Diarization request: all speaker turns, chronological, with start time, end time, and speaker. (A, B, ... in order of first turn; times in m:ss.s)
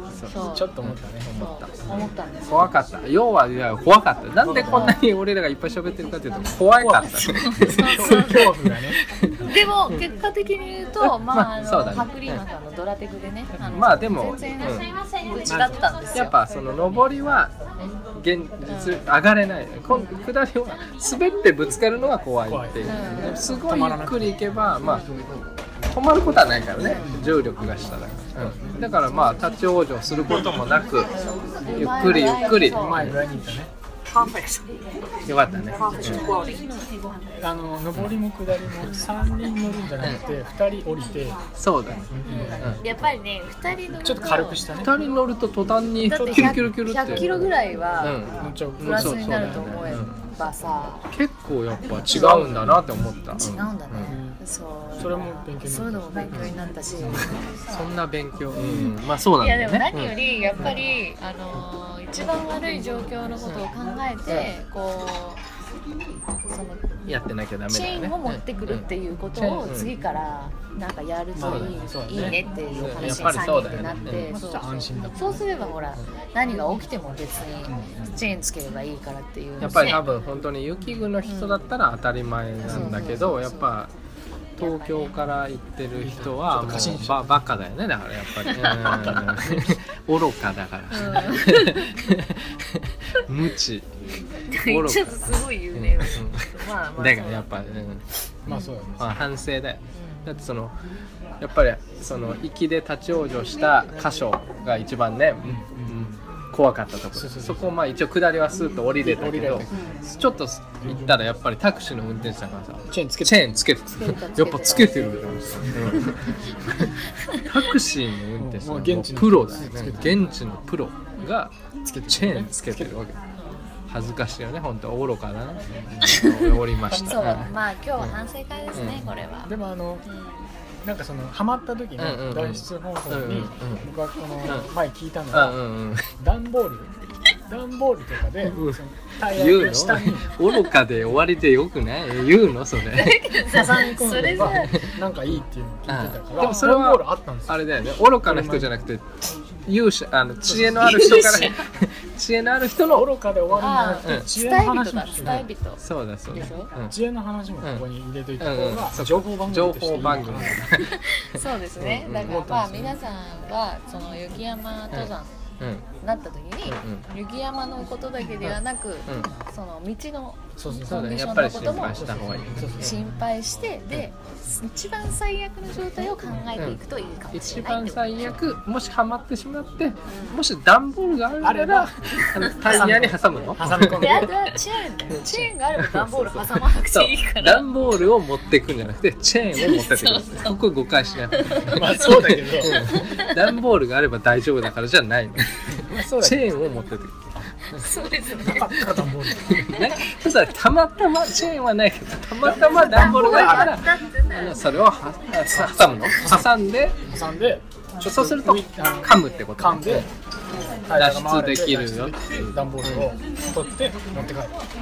0:00.1-0:01.8 A
0:00.3-0:00.7 B
0:00.4-0:01.3 C
0:01.4-0:02.7 B
0:02.5-0:07.8 A
0:04.4-0:05.0 C
0:04.7-0:05.0 B
0:06.8-0:09.0 C
0:07.2-0:08.5 B
0:09.0-0:10.0 A
0:09.4-0:16.4 B
0:11.0-0:12.4 A
0:13.5-0:14.1 C
0:13.7-0:14.9 A
0:15.5-0:15.9 C
0:16.1-0:17.5 A
0:18.2-0:25.1 A
0:18.7-0:19.1 B
0:19.9-0:20.2 B
0:22.5-0:24.4 C
0:22.8-0:23.4 B
0:24.8-0:25.1 B
0:25.9-0:31.1 A
0:26.8-0:27.0 B
0:26.9-0:27.3 C
0:28.4-0:28.8 C
0:31.1-0:33.1 B
0:31.7-0:33.2 A
0:32.4-0:33.7 C
0:34.1-0:34.8 B
0:35.2-0:36.3 A
0:35.6-0:36.9 B
0:36.0-0:36.2 C
0:37.4-0:41.4 C
0:38.0-0:38.9 A
0:41.6-0:42.1 A
0:42.1-0:43.1 C
0:42.2-0:44.6 B
0:44.0-0:45.0 C
0:44.8-0:47.3 A
0:46.0-0:48.2 B
0:48.0-0:50.1 A
0:48.4-0:50.1 C
0:48.8-0:51.1 B
0:51.1-0:54.2 A
0:52.1-0:52.8 B
0:52.1-0:52.8 C
0:53.4-0:57.7 B
0:54.1-0:54.4 C
0:55.0-0:56.2 C
0:57.0-0:57.4 C
0:57.1-1:00.7 A
0:58.6-0:58.9 C
0:59.4-1:05.4 B
1:04.3-1:04.5 A
1:06.5-1:06.9 B
1:07.1-1:08.8 A
1:07.7-1:20.1 B
1:09.4-1:09.9 A
1:11.3-1:15.5 C
1:11.4-1:14.3 A
1:17.6-1:18.2 C
1:19.6-1:23.9 A
1:21.2-1:21.7 B
1:22.7-1:23.2 C
1:22.7-1:23.8 B
1:24.6-1:33.9 A
1:24.6-1:25.2 B
1:26.0-1:27.4 C
1:28.4-1:29.2 B
1:28.6-1:29.8 C
1:30.9-1:31.9 B
1:34.5-1:37.8 B
1:34.5-1:38.1 A
1:38.5-1:39.1 C
1:39.0-1:40.7 A
1:40.0-1:40.2 B
1:41.4-1:56.9 A
1:45.4-1:46.2 C
1:47.1-1:47.7 C
1:49.0-1:49.7 C
1:49.7-1:50.0 B
1:50.9-1:51.2 C
1:52.9-1:53.7 C
1:54.0-1:57.4 B
1:55.6-1:56.1 C
1:57.4-2:03.2 A
1:58.4-2:00.3 C
2:01.8-2:03.0 C
2:03.4-2:03.6 B
2:03.9-2:08.1 A
2:05.7-2:06.1 C
2:06.1-2:09.5 B
2:06.9-2:07.4 C
2:08.7-2:09.1 A
2:09.4-2:10.1 C
2:10.0-2:10.5 B
2:10.8-2:15.6 C
2:12.0-2:13.9 A
2:14.4-2:14.7 A
2:15.3-2:16.0 A
2:16.2-2:16.9 C
2:17.5-2:20.3 C
2:18.4-2:23.3 A
2:22.9-2:24.8 B
2:23.5-2:27.6 C
2:24.5-2:25.0 A
2:25.9-2:29.1 A
2:26.4-2:26.7 B
2:28.2-2:28.8 C
2:29.7-2:34.3 A
2:30.4-2:31.2 C
2:30.8-2:31.6 B
2:32.9-2:35.5 C
2:33.6-2:36.7 B
2:35.2-2:37.0 A
2:36.9-2:40.6 C
2:38.4-2:42.4 A
2:40.9-2:45.4 B
2:42.2-2:43.0 C
2:44.9-2:45.8 A
2:46.0-2:52.0 B
2:46.7-2:47.1 A
2:48.4-2:49.3 A
2:50.6-2:51.2 C
2:50.9-2:53.0 A
2:51.8-2:53.0 C
2:52.8-2:58.4 B
2:57.3-3:04.5 A
3:00.1-3:00.4 B
3:01.4-3:01.9 C
3:02.6-3:07.7 B
3:02.7-3:04.3 C
3:05.1-3:05.5 C
3:05.8-3:17.8 A
3:09.5-3:10.7 B
3:11.3-3:13.4 B
3:11.6-3:12.8 C
3:15.8-3:16.6 C
3:17.7-3:18.8 B
3:18.4-3:19.6 C
3:18.8-3:27.0 A
3:22.4-3:23.7 C
3:22.8-3:24.6 B
3:25.6-3:26.5 C
3:27.1-3:30.1 C
3:28.0-3:30.1 A
3:30.8-3:34.6 C
3:30.9-3:33.1 A